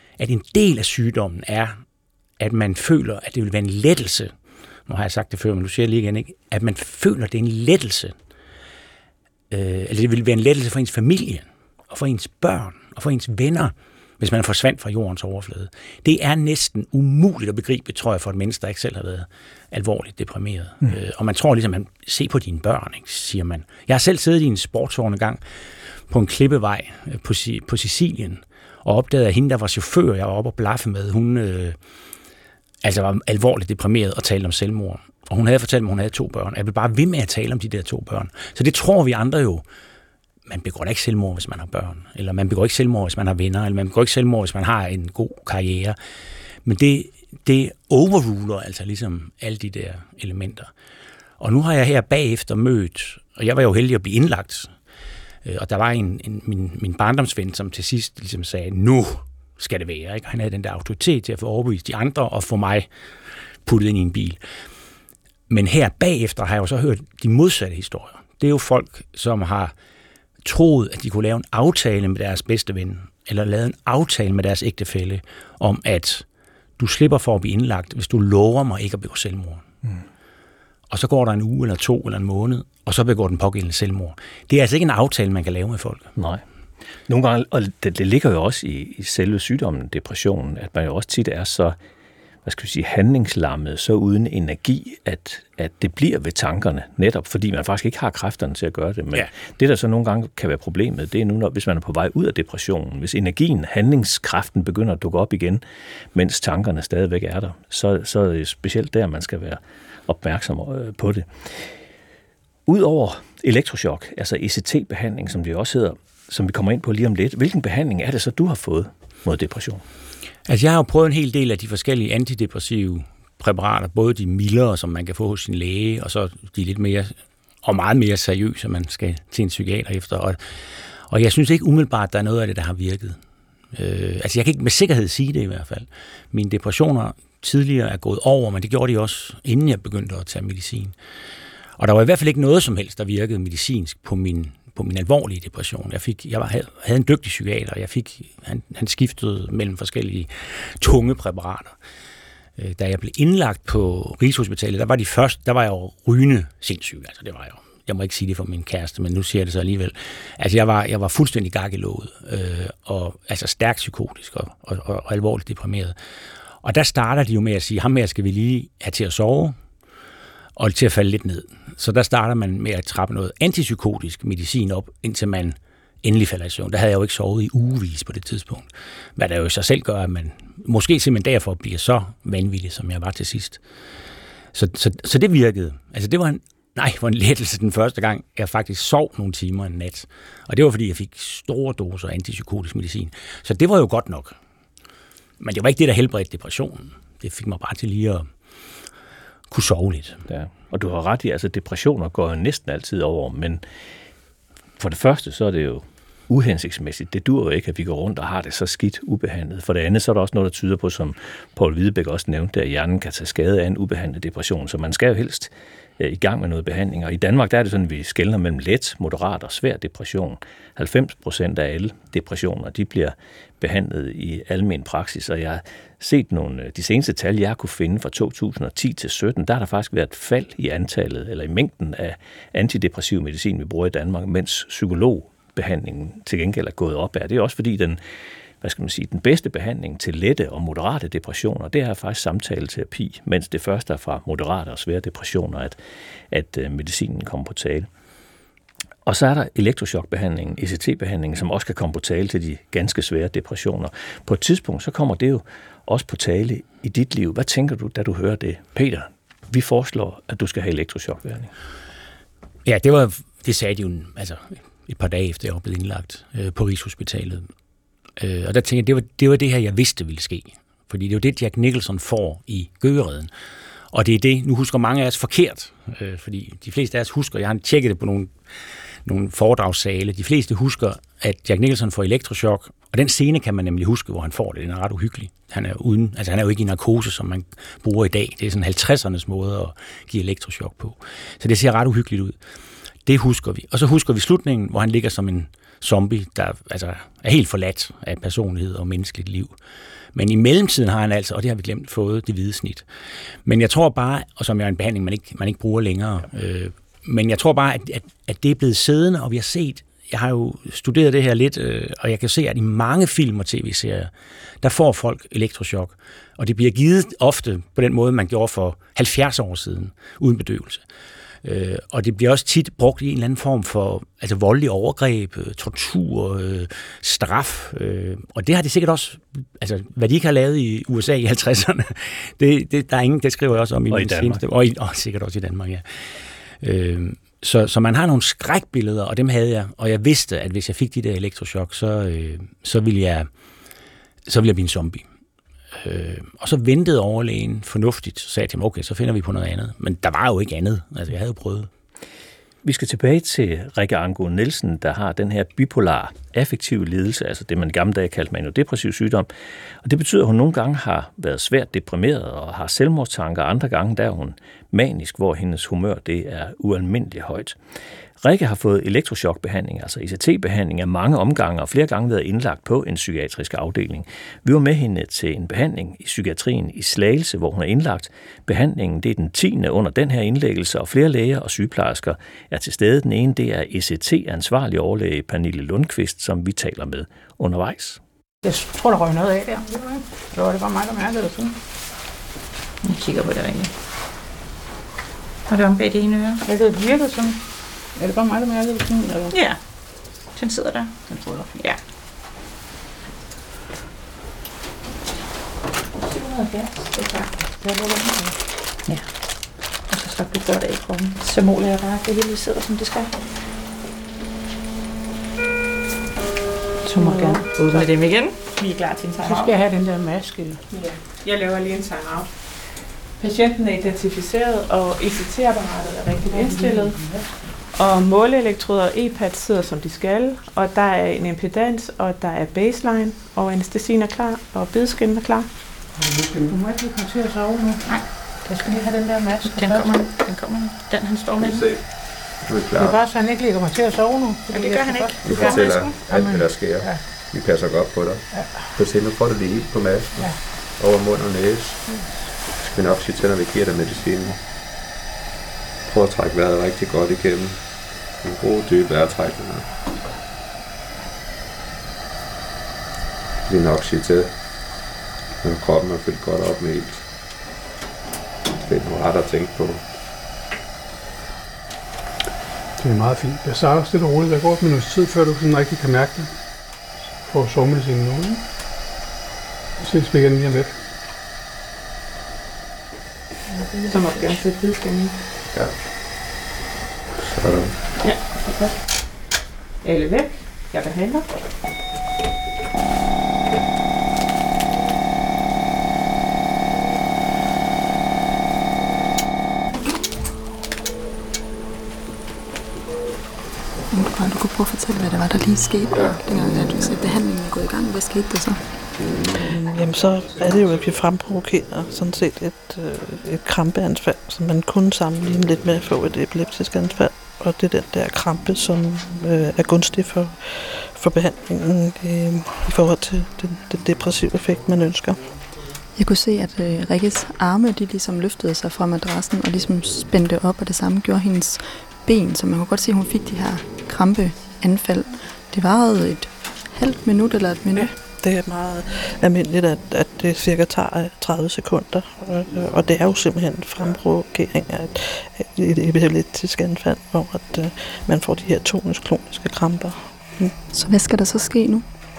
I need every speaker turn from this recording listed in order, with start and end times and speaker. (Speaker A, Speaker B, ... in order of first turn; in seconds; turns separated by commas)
Speaker A: 0.2-1.8, Speaker A: 2.4-4.3, Speaker A: 4.9-8.1, Speaker A: 9.5-25.4, Speaker A: 26.1-31.8, Speaker A: 32.8-39.6, Speaker A: 40.5-46.0, Speaker A: 46.6-50.7, Speaker A: 51.4-54.7, Speaker A: 55.4-62.9, Speaker A: 63.6-64.4, Speaker A: 65.5-69.7, Speaker A: 70.4-76.2, Speaker A: 76.8-79.6, Speaker A: 80.9-86.1, Speaker B: 86.2-86.4, Speaker B: 87.1-91.8, Speaker B: 92.4-105.6, Speaker B: 106.1-111.7, Speaker B: 112.7-119.8, Speaker A: 120.5-130.4, Speaker A: 131.1-133.2, Speaker A: 133.7-140.9, Speaker A: 141.8-151.7, Speaker A: 152.6-165.9, Speaker A: 166.6-169.5, Speaker A: 170.6-183.6, Speaker A: 184.5-194.3, Speaker A: 195.4-198.3, Speaker A: 199.5-200.2, Speaker B: 200.3-203.6, Speaker B: 204.8-238.0, Speaker B: 238.6-245.8, Speaker B: 246.3-247.9, Speaker B: 249.1-261.5, Speaker A: 262.6-267.5, Speaker A: 268.2-273.3, Speaker A: 273.9-278.3, Speaker A: 279.1-292.4, Speaker A: 293.1-299.5, Speaker A: 300.1-302.8, Speaker A: 303.4-314.1, Speaker A: 314.6-320.8, Speaker A: 321.4-335.8, Speaker B: 333.9-334.4, Speaker A: 336.6-343.3, Speaker A: 344.3-345.1, Speaker A: 345.8-351.7, Speaker B: 352.6-359.3, Speaker B: 359.8-367.6, Speaker B: 368.2-388.0, Speaker C: 388.4-391.6, Speaker D: 392.8-393.7, Speaker D: 395.5-396.4, Speaker C: 396.4-397.4, Speaker C: 397.9-399.3, Speaker D: 399.3-399.6, Speaker D: 400.1-401.8, Speaker D: 406.0-407.4, Speaker C: 407.6-408.3, Speaker D: 409.8-413.1, Speaker D: 416.8-419.5, Speaker C: 416.9-417.9, Speaker E: 418.6-419.4, Speaker C: 419.2-420.6, Speaker E: 420.7-422.3, Speaker E: 423.2-435.6, Speaker C: 426.3-427.2, Speaker C: 436.4-439.9, Speaker D: 439.4-441.7, Speaker F: 441.5-441.9, Speaker F: 442.4-443.0, Speaker C: 442.8-447.0, Speaker D: 444.5-446.0, Speaker F: 445.2-451.9, Speaker C: 448.3-448.7, Speaker F: 452.6-454.4, Speaker F: 455.8-459.7, Speaker F: 463.4-464.9, Speaker F: 465.4-467.1, Speaker F: 468.5-469.8, Speaker G: 472.8-476.6, Speaker G: 477.2-478.4, Speaker G: 479.8-480.8, Speaker E: 483.6-485.2, Speaker F: 485.5-485.8, Speaker F: 487.2-487.7, Speaker E: 488.0-491.3, Speaker H: 503.9-508.6, Speaker I: 509.4-525.4, Speaker H: 525.9-538.0, Speaker I: 537.8-550.5, Speaker H: 550.7-551.9